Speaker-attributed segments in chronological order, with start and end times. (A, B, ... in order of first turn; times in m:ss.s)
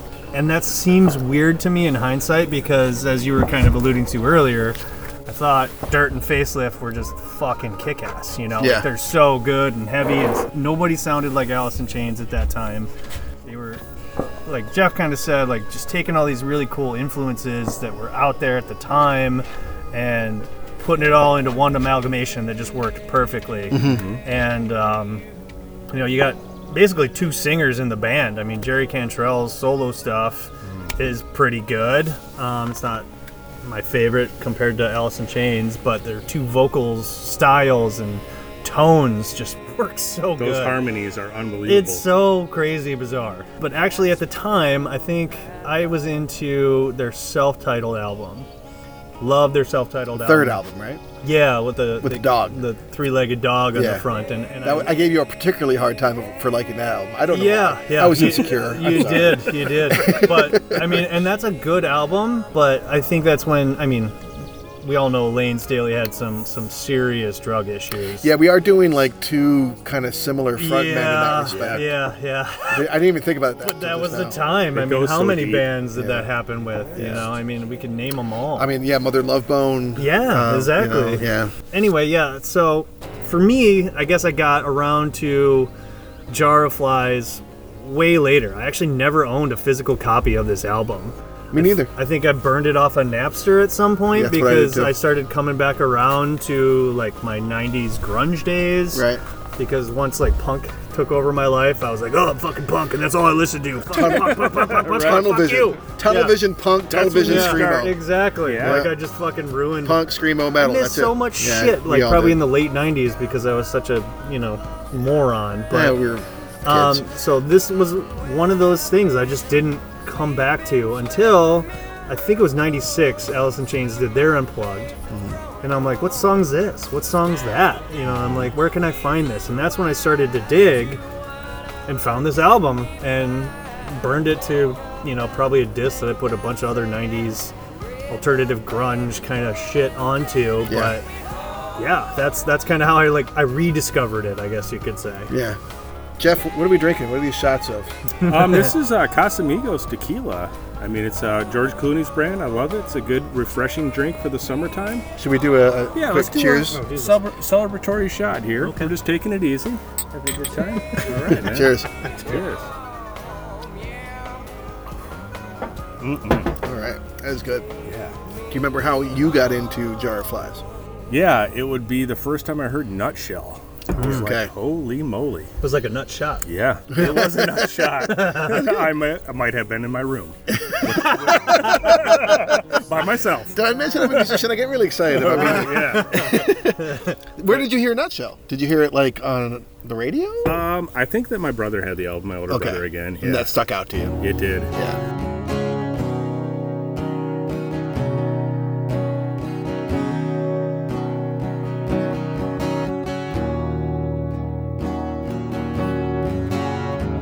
0:00.3-0:12.9 A
0:08.6-0:08.9 B
0:13.4-0:25.2 A
0:23.7-0:24.1 B
0:23.8-0:24.2 C
0:25.9-0:33.1 A
0:30.6-0:31.0 C
0:33.6-0:40.8 A
0:40.4-0:42.1 C
0:41.6-0:48.5 A
0:49.2-0:50.6 A
0:50.2-0:51.0 B
0:51.2-0:54.9 A
0:52.0-0:52.6 B
0:53.8-0:54.0 B
0:54.6-1:01.0 B
0:57.3-1:04.2 A
1:04.8-1:08.3 A
1:08.2-1:11.9 B
1:10.6-1:12.9 A
1:11.5-1:11.9 C
1:12.7-1:14.4 B
1:13.6-1:18.7 A
1:14.7-1:15.7 C
1:16.0-1:16.3 B
1:16.9-1:17.3 B
1:18.6-1:21.5 B
1:20.0-1:25.7 A
1:26.3-1:39.0 A
1:31.5-1:31.9 B
1:34.1-1:34.9 B
1:38.9-1:39.2 B
1:39.6-1:46.4 A
1:43.9-1:48.0 B
1:44.0-1:45.3 C
1:46.9-1:48.9 C
1:47.2-1:56.0 A
1:48.6-1:48.9 B
1:49.8-1:52.4 B
1:55.7-1:57.1 B
1:56.6-2:04.9 A
2:05.1-2:05.4 B
2:05.6-2:11.0 A
2:08.2-2:08.5 C
2:11.9-2:17.5 A
2:18.1-2:21.1 A
2:20.7-2:20.9 B
2:21.8-2:25.3 A
2:25.3-2:25.6 B
2:26.2-2:27.9 B
2:28.2-2:28.7 A
2:28.2-2:35.1 C
2:35.2-2:36.8 B
2:35.9-2:42.7 C
2:36.7-2:37.2 A
2:38.6-2:38.9 A
2:41.2-2:42.0 B
2:46.0-2:46.5 C
2:46.6-2:47.7 B
2:47.8-2:48.1 C
2:48.5-2:50.6 B
2:51.1-2:55.5 C
2:54.0-2:54.3 A
2:54.0-2:54.5 B
2:55.6-2:56.5 A
2:56.4-3:03.5 C
2:57.0-2:58.8 A
3:00.8-3:02.1 A
3:01.5-3:02.5 B
3:03.5-3:10.6 B
3:04.1-3:04.4 C
3:05.1-3:06.3 C
3:05.2-3:07.2 A
3:10.4-3:13.5 C
3:12.5-3:14.2 B
3:14.2-3:14.7 C
3:14.7-3:15.0 B